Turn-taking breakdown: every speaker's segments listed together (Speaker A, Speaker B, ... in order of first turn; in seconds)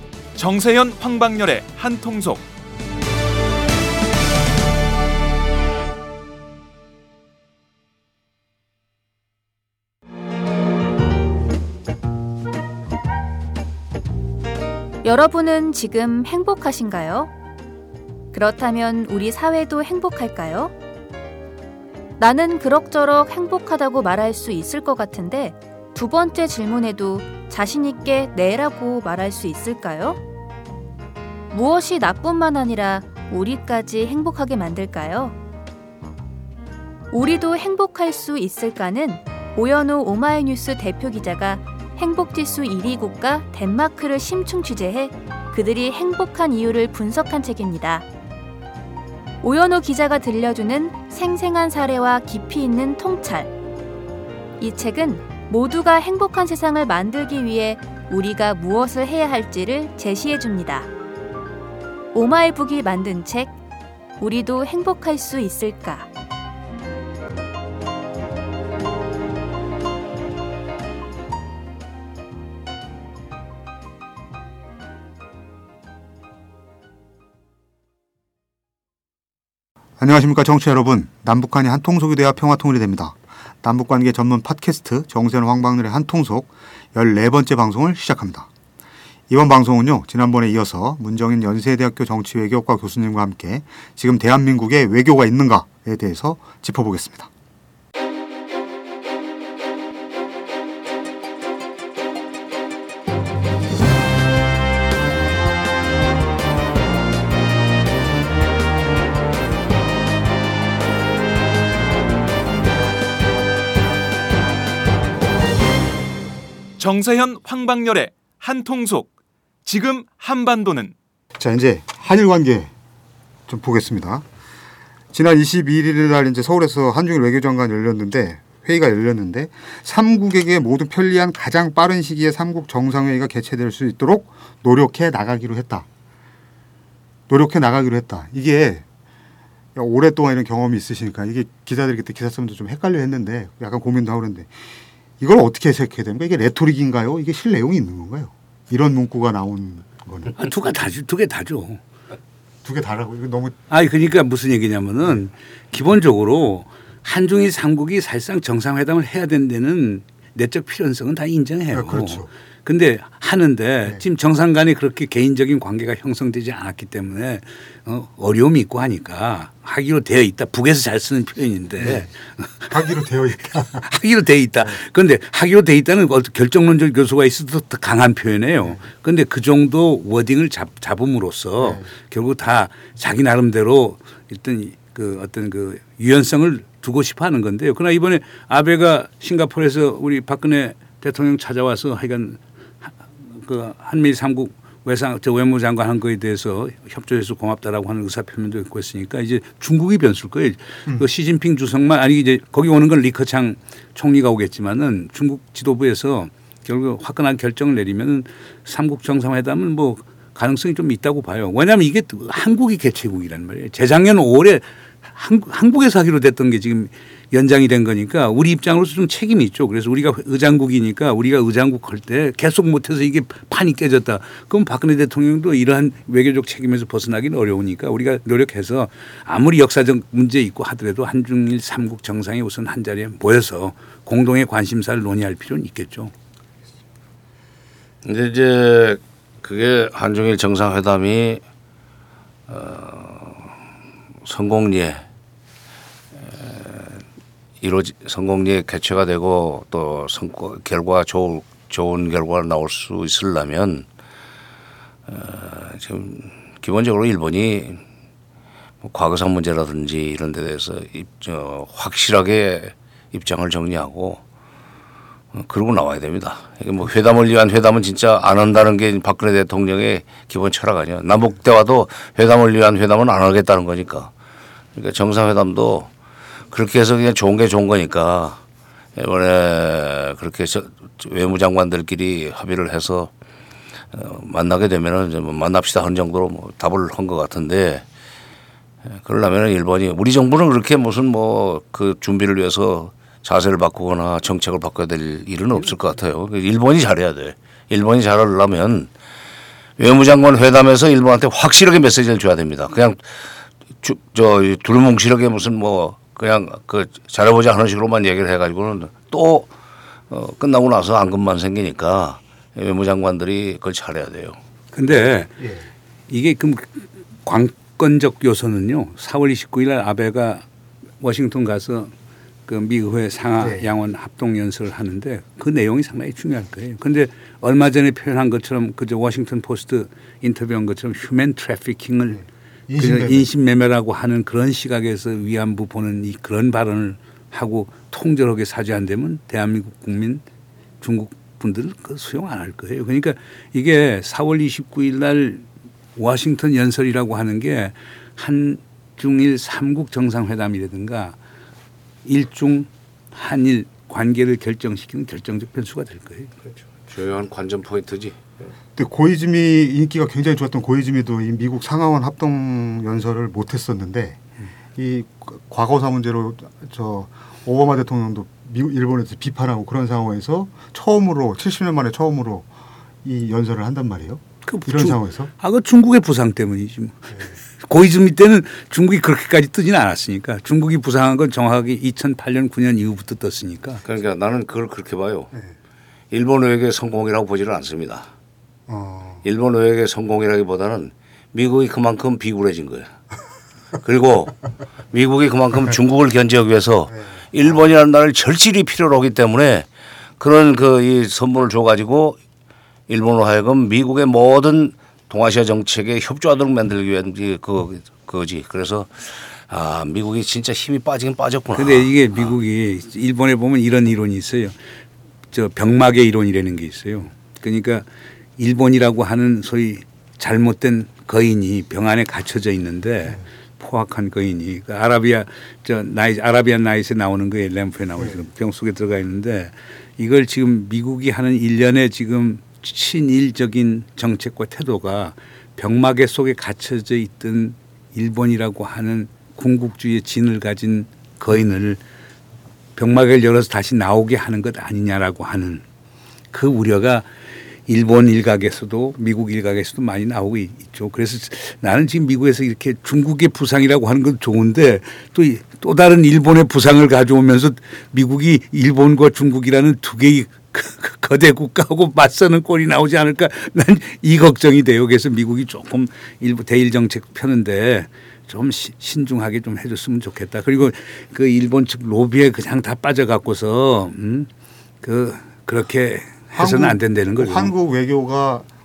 Speaker A: 0.3-2.5, 116.8-119.1, 119.6-120.9
Speaker B: 15.0-17.3, 18.3-20.7, 22.2-30.2, 31.5-35.4, 37.1-48.0, 49.4-53.5, 54.6-60.9, 62.1-63.5, 64.2-66.1
Speaker C: 80.0-88.5, 89.3-97.3, 121.4-122.7, 123.5-124.2, 125.1-135.8, 137.3-138.8, 139.7-144.5, 145.2-150.3, 152.6-153.6, 161.7-162.3, 171.8-172.1, 172.7-173.8, 181.6-181.8, 315.4-315.6, 323.4-323.7, 332.7-333.2, 358.8-364.2, 364.8-372.5, 373.0-375.3, 388.7-389.2, 476.3-478.4
Speaker D: 150.4-151.8, 153.7-172.7, 173.8-236.1, 314.7-315.3, 316.1-320.4, 321.0-321.9, 322.4-332.2, 332.8-340.2, 340.8-351.1, 352.0-356.3, 374.4-383.8, 411.5-414.5, 415.3-417.9, 418.4-441.8, 442.8-445.6, 446.3-447.1, 447.7-474.3, 474.8-477.5
Speaker E: 238.0-241.4, 242.5-243.5, 244.2-245.0, 246.2-247.0, 247.6-253.9, 255.1-257.8, 258.8-264.2, 265.3-274.1, 274.7-275.9, 276.5-278.4, 278.9-283.1, 283.9-287.8, 288.9-298.9, 299.8-303.0, 303.8-309.5, 310.1-314.4, 356.7-358.3, 383.8-385.3, 386.1-388.1, 389.2-392.9, 393.8-399.6, 400.2-402.2, 402.9-412.3